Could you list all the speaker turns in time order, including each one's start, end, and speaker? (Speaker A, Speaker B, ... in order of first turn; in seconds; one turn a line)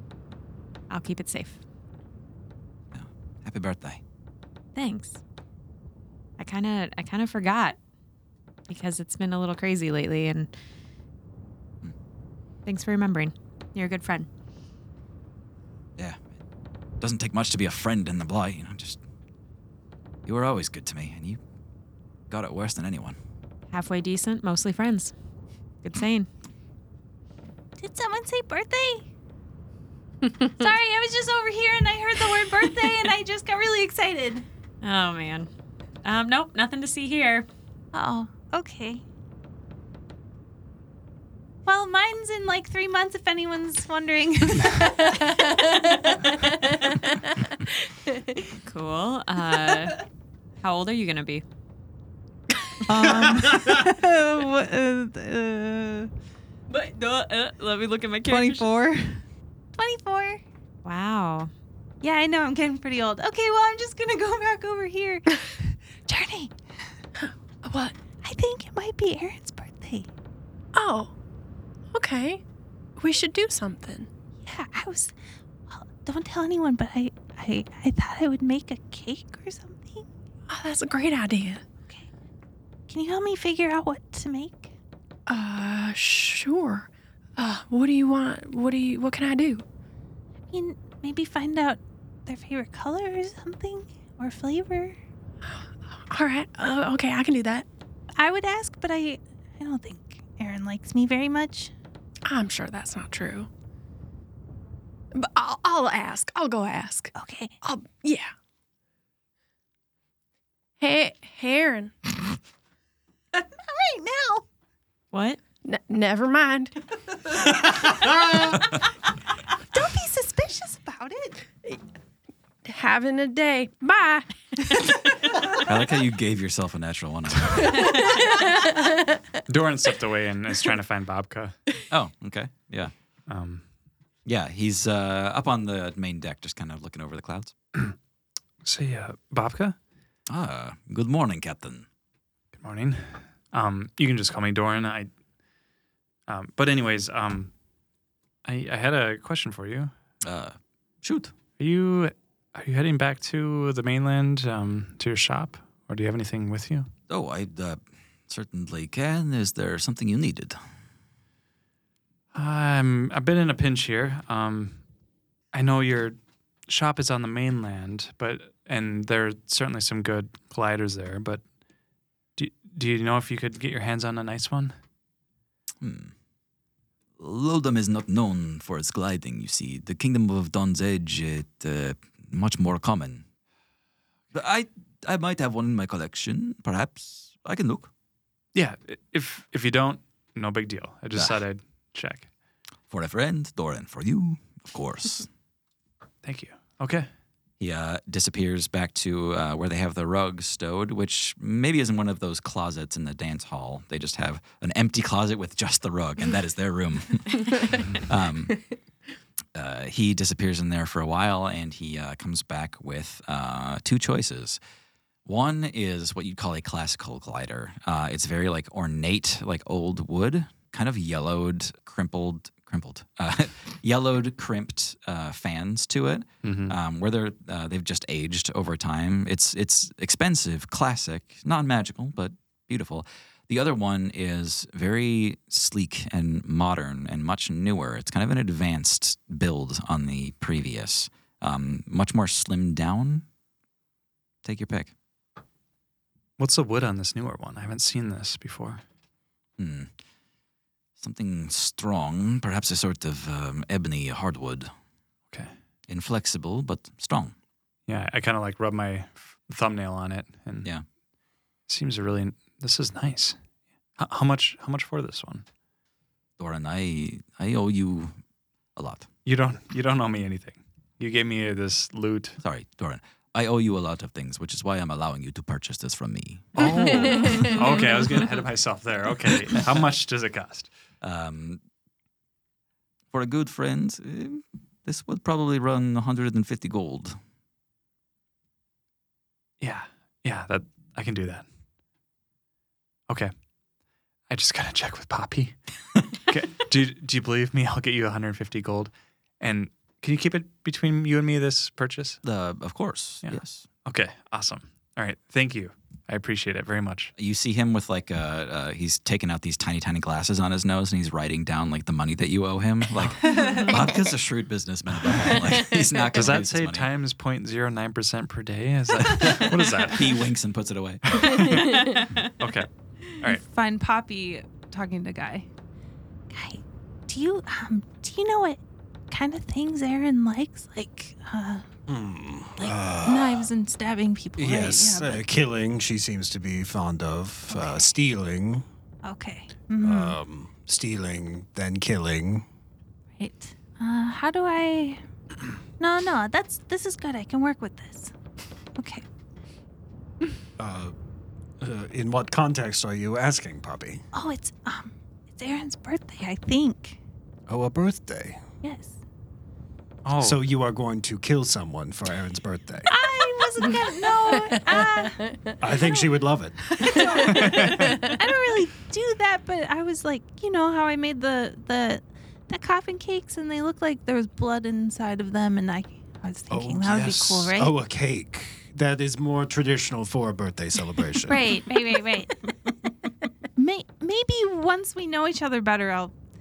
Speaker A: 0.9-1.6
Speaker B: 2.9-4.0
Speaker A: 4.8-5.2
Speaker A: 6.4-7.8
Speaker A: 8.7-10.5
Speaker A: 12.7-14.3
Speaker B: 16.0-16.4
Speaker B: 17.0-19.0
Speaker B: 20.3-21.4
Speaker B: 22.3-23.2
Speaker A: 23.7-25.1
Speaker A: 25.8-26.3
Speaker C: 27.8-29.1
Speaker C: 30.5-34.5
Speaker A: 34.8-35.5
Speaker A: 36.0-37.5
Speaker C: 37.9-39.0
Speaker C: 41.6-45.5
Speaker A: 48.7-50.0
Speaker A: 50.6-51.4
Speaker C: 52.9-56.1
Speaker D: 52.9-53.6
Speaker A: 56.7-58.7
Speaker D: 58.3-58.9
Speaker C: 59.8-60.4
Speaker A: 60.8-61.5
Speaker C: 62.0-66.5
Speaker E: 67.2-68.0
Speaker C: 68.2-70.1
Speaker E: 70.7-71.1
Speaker E: 71.9-72.4
Speaker E: 73.0-74.1
Speaker C: 74.4-75.1
Speaker C: 75.7-80.1
Speaker E: 80.5-81.6
Speaker C: 82.9-84.7
Speaker E: 85.3-89.6
Speaker C: 90.5-95.0
Speaker E: 96.1-97.7
Speaker C: 98.2-101.7
Speaker E: 102.3-103.5
Speaker E: 105.1-108.3
Speaker C: 107.2-107.5
Speaker E: 110.8-112.1
Speaker C: 113.3-114.5
Speaker A: 115.1-115.4
Speaker E: 115.7-116.8
Speaker C: 119.7-121.4
Speaker E: 122.7-124.3
Speaker B: 125.6-128.0
Speaker F: 129.5-131.6
Speaker B: 131.9-132.9
Speaker F: 133.3-133.7
Speaker B: 134.3-137.5
Speaker F: 138.6-139.8
Speaker B: 140.3-141.9
Speaker F: 142.6-145.1
Speaker F: 146.3-147.5
Speaker F: 148.4-149.9
Speaker B: 150.2-151.3
Speaker F: 151.6-156.9
Speaker B: 157.1-160.6
Speaker F: 162.3-164.8
Speaker F: 165.5-166.2
Speaker F: 166.7-171.4
Speaker F: 172.4-174.8
Speaker B: 175.8-176.1
Speaker B: 177.2-183.2
Speaker B: 184.3-187.9
Speaker F: 188.5-192.3
Speaker B: 192.9-195.3
Speaker F: 196.2-197.1
Speaker B: 197.6-208.6
Speaker B: 209.6-214.6
Speaker B: 215.2-243.2
Speaker F: 226.4-226.8
Speaker B: 244.4-244.9
Speaker F: 246.4-248.8
Speaker B: 249.6-249.9
Speaker B: 251.0-254.7
Speaker B: 255.9-257.4
Speaker F: 257.9-260.7
Speaker F: 261.7-263.4
Speaker F: 264.0-265.4
Speaker B: 266.4-268.2
Speaker B: 268.8-269.1
Speaker F: 269.3-272.4
Speaker B: 272.4-276.7
Speaker F: 276.6-280.7
Speaker B: 281.0-281.6
Speaker B: 283.1-287.2
Speaker F: 289.6-291.4
Speaker F: 294.3-295.6
Speaker F: 296.2-302.2
Speaker B: 302.2-303.6
Speaker F: 303.2-307.1
Speaker B: 307.2-316.9
Speaker F: 316.1-320.2
Speaker B: 319.0-321.4
Speaker F: 321.2-322.7
Speaker A: 321.8-322.3
Speaker D: 323.4-325.5
Speaker C: 326.3-331.7
Speaker G: 331.9-333.5
Speaker C: 332.6-335.2
Speaker G: 334.4-338.7
Speaker C: 337.5-337.9
Speaker C: 339.0-340.2
Speaker G: 339.8-342.5
Speaker C: 343.2-345.0
Speaker C: 345.8-348.1
Speaker C: 348.8-349.1
Speaker G: 350.6-350.9
Speaker G: 351.6-354.0
Speaker C: 354.1-357.0
Speaker G: 357.5-358.4
Speaker C: 358.6-359.0
Speaker F: 360.1-360.4
Speaker G: 360.2-363.0
Speaker C: 362.9-365.3
Speaker G: 365.6-367.5
Speaker C: 365.8-366.1
Speaker C: 366.7-377.7
Speaker F: 367.2-368.0
Speaker G: 376.5-381.4
Speaker C: 381.3-382.3
Speaker C: 383.6-386.1